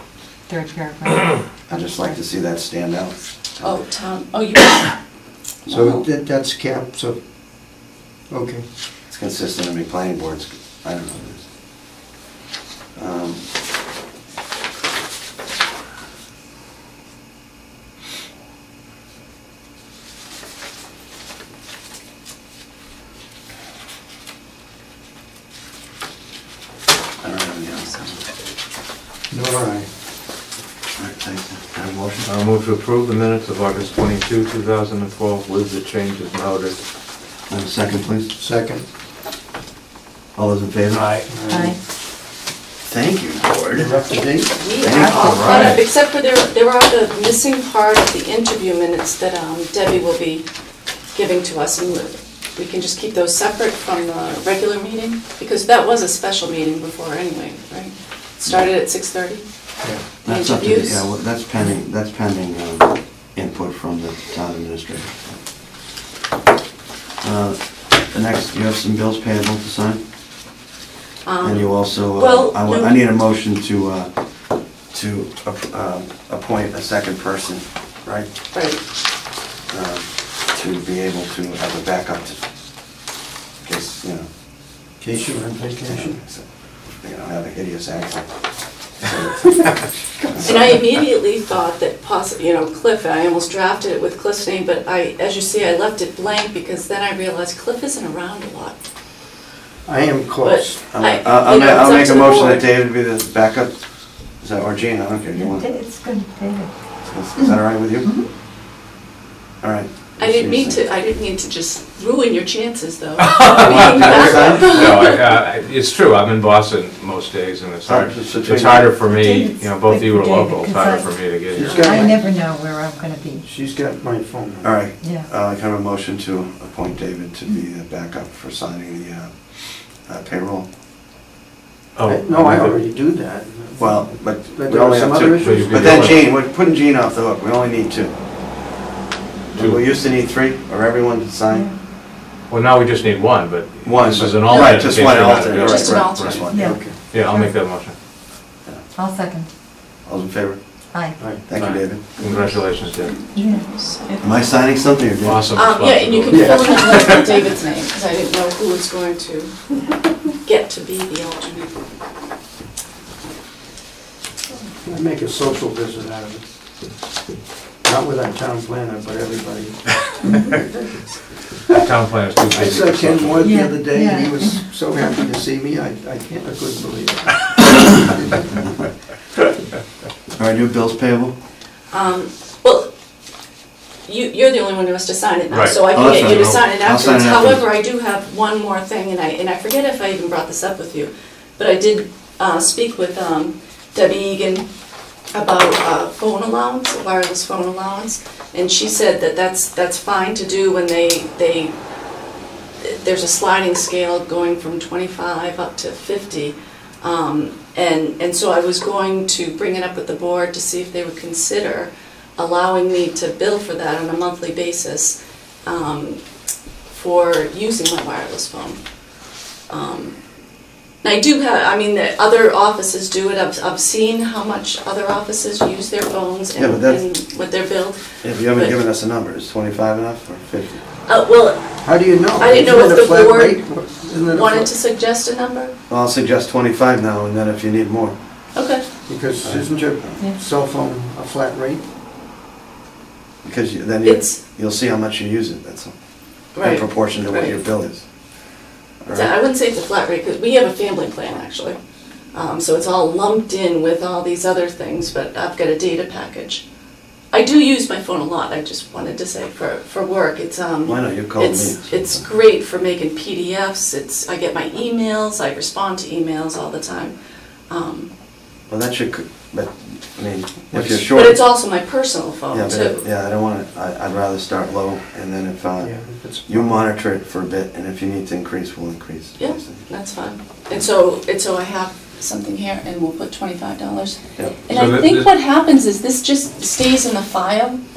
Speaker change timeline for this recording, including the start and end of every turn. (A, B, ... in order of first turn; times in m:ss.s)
0:00.5-0:02.2 A
0:01.7-0:03.8 B
0:03.6-0:05.0 C
0:05.6-0:06.0 C
0:05.7-0:07.2 D
0:08.3-0:08.6 D
0:09.1-0:11.5 B
0:12.9-0:13.4 B
0:27.2-0:28.2 B
0:29.3-0:29.9 D
0:31.0-0:32.3 B
0:32.2-0:36.8 E
0:37.5-0:38.3 B
0:38.4-0:38.8 D
0:40.3-0:41.1 B
0:40.9-0:41.2 E
0:41.3-0:41.8 D
0:41.5-0:41.8 A
0:42.9-0:43.9 B
0:43.8-0:44.5 D
0:44.5-0:50.4 C
0:44.8-0:45.8 B
0:44.9-0:45.6 A
0:45.3-0:45.9 E
0:51.1-0:59.4 C
0:58.4-0:58.7 B
1:00.2-1:01.0 C
1:00.2-1:05.3 B
1:07.2-1:10.0 B
1:11.2-1:13.0 C
1:11.4-1:18.3 B
1:18.5-1:18.8 C
1:19.7-1:22.4 B
1:23.6-1:24.3 B
1:25.0-1:26.2 D
1:25.9-1:28.3 B
1:29.0-1:29.8 B
1:30.3-1:30.8 B
1:30.4-1:38.7 C
1:39.8-1:40.8 D
1:40.4-1:42.7 C
1:40.9-1:43.8 B
1:44.4-1:45.7 B
1:45.3-1:46.7 A
1:47.0-1:48.1 B
1:48.0-1:48.3 A
1:49.6-1:50.8 B
1:50.2-1:55.2 C
1:53.3-2:01.9 E
1:53.7-1:54.7 D
1:54.0-1:54.8 B
1:57.8-1:58.9 B
1:59.0-2:01.1 A
2:01.5-2:02.2 D
2:01.7-2:03.4 A
2:03.4-2:04.7 D
2:04.6-2:10.7 B
2:05.0-2:05.3 A
2:12.0-2:12.8 E
2:12.0-2:16.1 D
2:13.8-2:18.1 B
2:15.4-2:16.2 E
2:19.5-2:21.7 B
2:22.5-2:26.4 E
2:23.8-2:26.7 B
2:24.2-2:24.6 D
2:25.5-2:26.4 C
2:26.5-2:27.5 A
2:26.6-2:27.0 D
2:27.0-2:27.9 E
2:28.9-2:29.5 A
2:30.0-2:30.6 B
2:30.9-2:31.3 A
2:31.4-2:32.0 B
2:31.5-2:33.2 E
2:32.2-2:34.4 C
2:33.3-2:33.7 A
2:34.2-2:35.5 B
2:35.2-2:37.5 E
2:35.5-2:39.5 C
2:36.3-2:36.9 D
2:40.4-2:41.8 C
2:44.8-2:46.4 D
2:47.8-2:49.8 D
2:50.2-2:50.6 A
2:51.7-2:53.5 E
2:52.5-2:58.6 D
2:53.4-2:54.6 A
3:00.4-3:01.3 B
3:01.9-3:02.9 C
3:04.0-3:14.6 C
3:05.5-3:05.8 E
3:05.9-3:07.6 B
3:15.3-3:21.7 C
3:22.8-3:36.2 C
3:36.9-3:38.8 C
3:39.7-3:40.2 C
3:41.0-3:48.8 C
3:46.6-3:47.0 B
3:48.2-3:50.8 B
3:51.0-3:51.8 C
3:51.8-3:54.7 D
3:52.4-3:53.7 C
3:54.3-3:55.7 C
3:55.9-3:58.2 B
3:58.5-3:58.8 C
3:59.1-4:01.8 D
3:59.4-3:59.7 B
4:03.4-4:05.9 B
4:04.0-4:04.4 C
4:06.5-4:07.6 C
4:06.6-4:08.0 B
4:09.0-4:09.3 B
4:09.1-4:11.8 C
4:12.3-4:16.6 C
4:17.3-4:27.1 C
4:20.8-4:22.2 B
4:27.7-4:28.1 C
4:28.7-4:31.4 B
4:30.7-4:31.0 D
4:31.1-4:33.0 C
4:32.5-4:35.9 B
4:35.8-4:36.9 D
4:36.4-4:39.8 B
4:39.4-4:47.8 C
4:44.7-4:45.3 E